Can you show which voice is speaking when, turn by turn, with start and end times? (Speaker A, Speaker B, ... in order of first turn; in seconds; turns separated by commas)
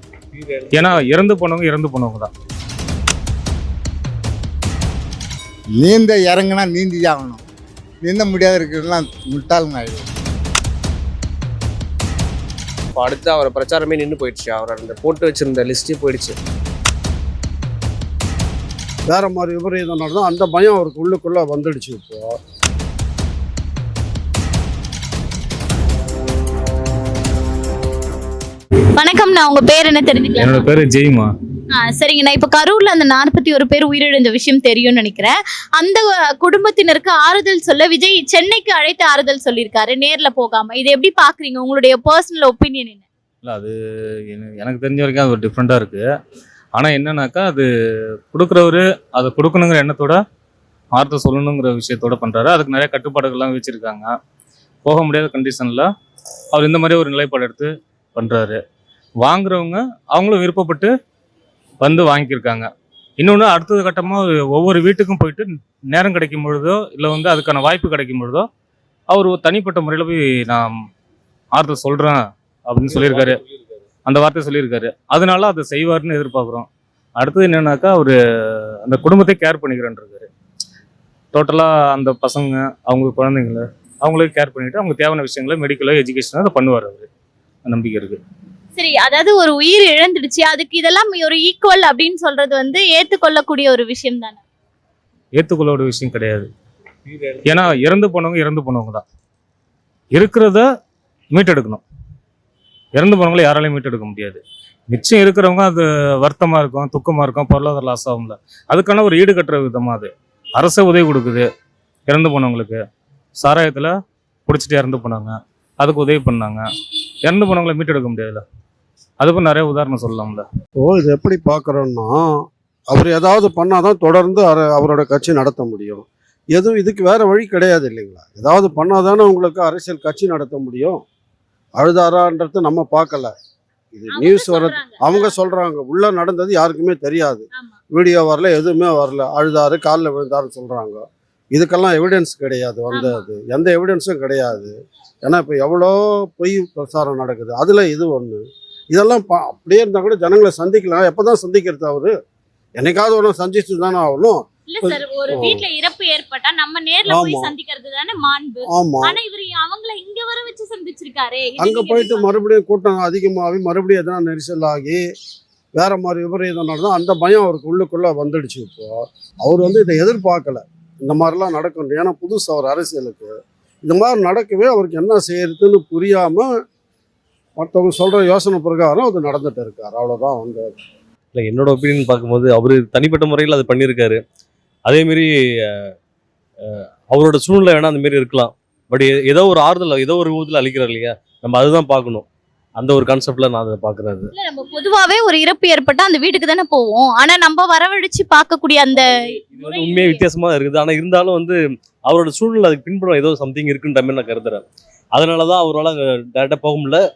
Speaker A: 0.3-0.8, Speaker B: 0.7-2.3, Speaker C: 5.8-7.4, Speaker C: 8.0-10.1, Speaker D: 12.9-16.4, Speaker E: 19.1-22.4, Speaker B: 30.3-31.3, Speaker F: 31.9-43.0, Speaker B: 43.4-43.8, Speaker B: 44.3-46.1, Speaker B: 46.8-47.7, Speaker B: 48.3-50.2, Speaker B: 51.0-54.1, Speaker B: 54.9-55.9, Speaker B: 56.5-58.6, Speaker B: 59.2-60.9, Speaker B: 61.8-62.7, Speaker B: 63.2-68.5, Speaker B: 69.1-70.7, Speaker B: 71.5-73.4, Speaker B: 74.0-80.3, Speaker B: 81.3-87.1, Speaker B: 87.7-88.2, Speaker F: 88.8-94.4, Speaker B: 95.4-96.5, Speaker B: 97.4-99.0, Speaker B: 100.1-100.7, Speaker B: 101.3-101.8, Speaker B: 103.0-111.5, Speaker B: 112.1-112.8, Speaker B: 113.4-113.9, Speaker B: 114.5-116.6, Speaker B: 117.2-118.4, Speaker B: 119.2-120.5, Speaker E: 120.8-131.0, Speaker E: 131.8-133.3, Speaker E: 133.9-152.1, Speaker F: 134.2-135.2, Speaker E: 152.8-155.7, Speaker F: 154.7-156.3, Speaker F: 156.9-162.4, Speaker E: 157.1-157.5, Speaker E: 158.7-159.2, Speaker E: 161.6-165.0, Speaker E: 165.8-173.3, Speaker E: 173.8-176.5, Speaker E: 177.6-180.7, Speaker A: 181.3-184.2, Speaker A: 184.9-185.3, Speaker A: 186.7-192.3, Speaker A: 192.8-194.3, Speaker F: 194.4-199.1, Speaker A: 199.0-207.0